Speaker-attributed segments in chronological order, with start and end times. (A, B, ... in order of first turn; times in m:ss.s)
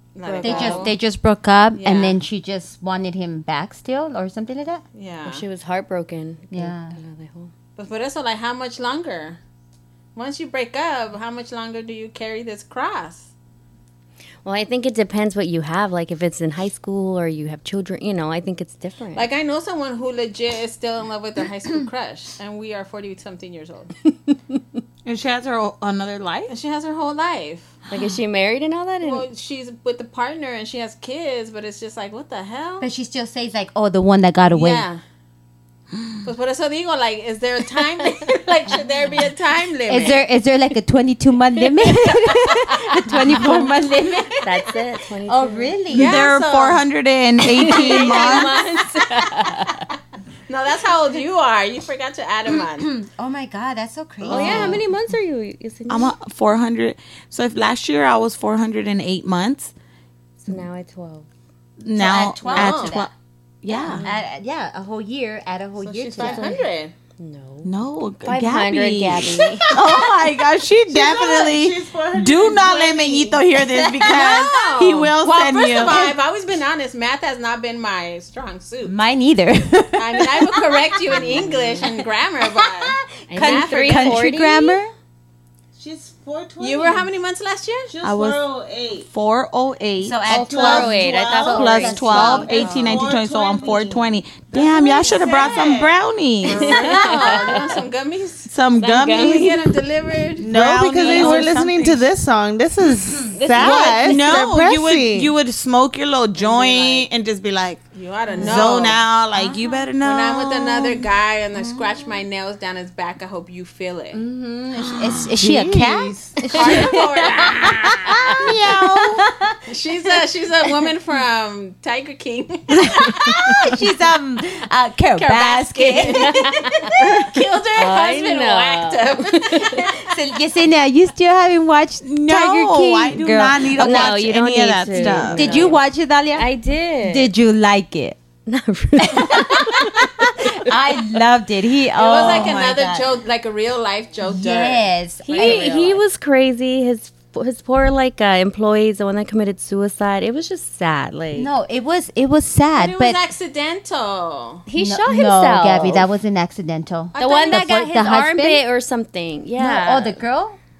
0:00.1-0:01.0 A
0:00.2-0:00.9 B
0:00.4-0:04.8 C
0:01.8-0:02.2 A
0:04.9-0:05.4 A
0:05.2-0:07.5 B
0:06.5-0:07.0 C
0:07.8-0:09.4 A
0:10.1-0:13.3 A
0:14.4-0:19.3 B
0:19.1-0:23.9 A
0:25.0-0:26.5 D
0:26.5-0:27.7 A
0:27.9-0:29.3 B
0:29.0-0:32.9 A
0:32.8-0:34.8 C
0:34.5-0:35.0 A
0:36.2-0:40.2 A
0:39.9-0:44.4 C
0:44.4-0:45.7 B
0:45.3-0:46.2 C
0:45.9-0:46.8 A
0:45.9-0:48.5 D
0:47.5-0:49.8 B
0:47.6-0:48.7 A
0:50.5-0:53.0 A
0:52.8-0:54.8 C
0:54.3-0:56.1 B
0:54.4-0:54.7 D
0:55.9-0:59.7 D
1:00.4-1:01.2 B
1:01.8-1:03.1 D
1:01.9-1:03.1 C
1:02.4-1:03.0 A
1:03.6-1:04.0 D
1:03.7-1:06.6 C
1:03.8-1:04.2 B
1:05.8-1:06.9 A
1:06.2-1:06.6 B
1:07.2-1:07.7 B
1:07.6-1:16.1 D
1:08.2-1:09.7 B
1:10.9-1:13.4 E
1:13.6-1:14.5 C
1:14.0-1:19.0 A
1:18.8-1:21.4 C
1:20.0-1:24.2 A
1:21.1-1:21.9 B
1:22.4-1:24.9 C
1:23.3-1:24.8 B
1:25.8-1:27.1 E
1:26.6-1:27.9 A
1:27.9-1:29.1 E
1:28.0-1:28.4 D
1:29.1-1:36.7 D
1:30.0-1:32.8 C
1:30.3-1:32.5 B
1:30.3-1:36.0 E
1:32.5-1:33.0 A
1:35.0-1:35.6 A
1:36.4-1:38.5 A
1:36.5-1:37.8 B
1:38.5-1:39.6 D
1:38.8-1:39.6 B
1:39.1-1:41.4 A
1:40.4-1:42.1 D
1:40.4-1:45.3 E
1:43.3-1:44.2 B
1:43.6-1:47.8 D
1:46.4-1:47.1 A
1:47.9-1:49.0 A
1:48.3-1:51.0 D
1:48.4-1:48.6 C
1:50.0-1:54.2 A
1:51.6-1:51.9 C
1:54.1-1:59.6 C
1:55.3-1:56.3 E
1:56.5-1:58.0 A
1:58.3-1:59.2 D
1:59.7-2:03.8 A
2:03.0-2:06.6 C
2:05.1-2:10.1 A
2:06.2-2:06.9 B
2:07.8-2:09.9 B
2:09.9-2:14.2 C
2:12.0-2:15.7 D
2:13.8-2:15.8 B
2:14.9-2:16.5 C
2:16.4-2:17.3 B
2:17.0-2:18.2 C
2:18.4-2:20.6 B
2:19.0-2:23.1 C
2:21.9-2:26.0 A
2:24.2-2:25.8 C
2:25.3-2:31.5 B
2:31.3-2:33.2 C
2:32.7-2:34.6 A
2:34.7-2:36.1 B
2:34.8-2:38.6 C
2:37.1-2:37.6 A
2:37.2-2:40.2 B
2:39.6-2:40.6 C